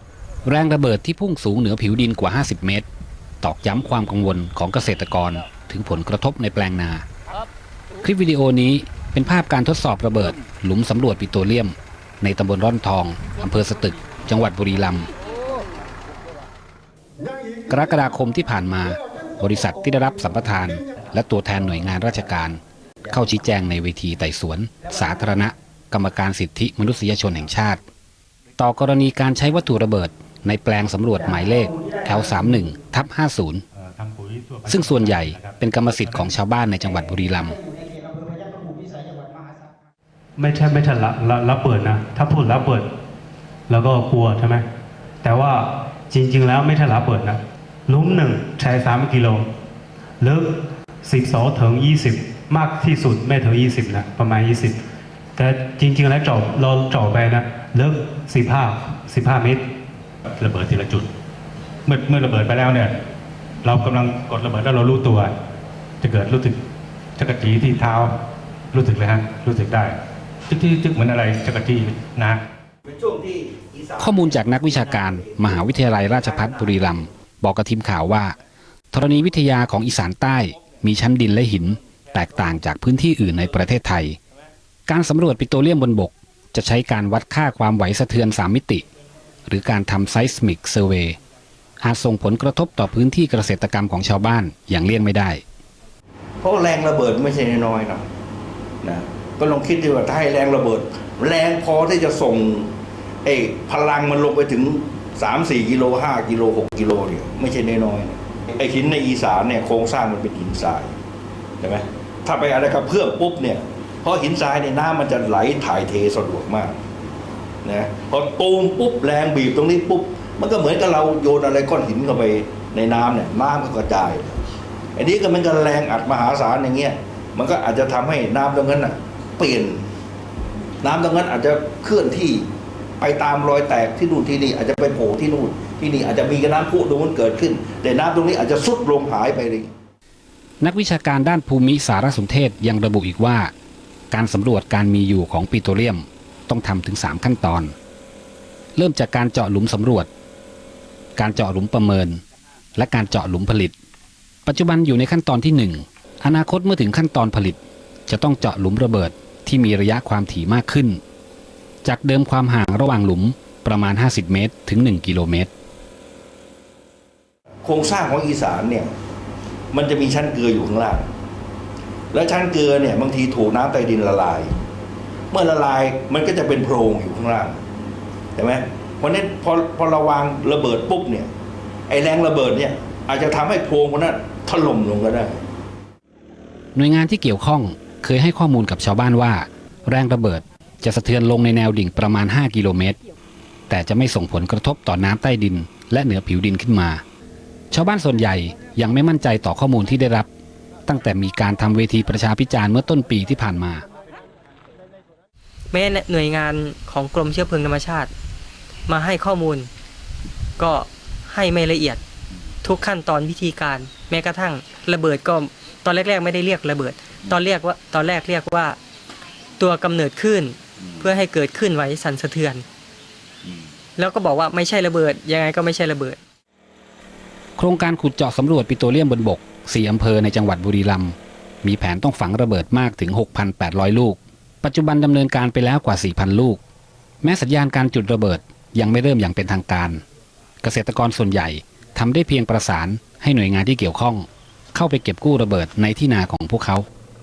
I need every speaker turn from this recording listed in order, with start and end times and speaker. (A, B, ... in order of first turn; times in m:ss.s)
0:00.4-0:02.9 A
0:03.4-0:07.1 A
0:08.0-0:15.1 A
0:17.7-0:27.8 A
0:28.6-0:33.6 A
0:33.8-0:36.4 B
0:34.7-0:37.6 A
0:40.4-0:42.9 C
0:43.7-0:44.7 C
0:45.2-0:49.5 C
0:50.2-0:54.8 C
0:55.4-0:59.7 C
1:00.4-1:01.1 B
1:01.9-1:02.9 B
1:03.6-1:05.3 B
1:06.0-1:06.6 B
1:07.2-1:08.2 B
1:08.7-1:10.0 B
1:10.5-1:12.4 B
1:12.9-1:16.9 D
1:14.0-1:18.4 A
1:18.9-1:24.2 A
1:24.9-1:28.9 A
1:29.5-1:31.2 A
1:31.8-1:35.4 A
1:36.4-1:38.0 D
1:38.8-1:42.7 D
1:43.2-1:50.9 D
1:51.6-1:56.8 D
1:57.6-2:04.4 D
2:05.0-2:09.8 D
2:10.8-2:12.5 D
2:13.0-2:19.7 D
2:20.6-2:23.5 A
2:24.1-2:27.8 A
2:28.8-2:30.1 A
2:31.2-2:32.2 A
2:32.8-2:33.7 A
2:34.5-2:41.0 A
2:41.8-2:45.5 A
2:47.6-2:48.9 D
2:49.7-2:51.1 D
2:52.1-2:54.6 D
2:55.3-2:57.6 D
2:58.4-3:01.3 D
3:01.9-3:05.4 D
3:06.8-3:13.0 A
3:13.7-3:17.0 A
3:17.7-3:20.3 A
3:20.9-3:23.8 A
3:25.7-3:28.1 E
3:28.9-3:29.7 E
3:30.6-3:32.0 E
3:32.6-3:38.8 E
3:39.6-3:42.6 E
3:44.0-3:46.2 E
3:47.6-3:56.6 A
3:57.2-4:00.0 A
4:00.6-4:06.9 A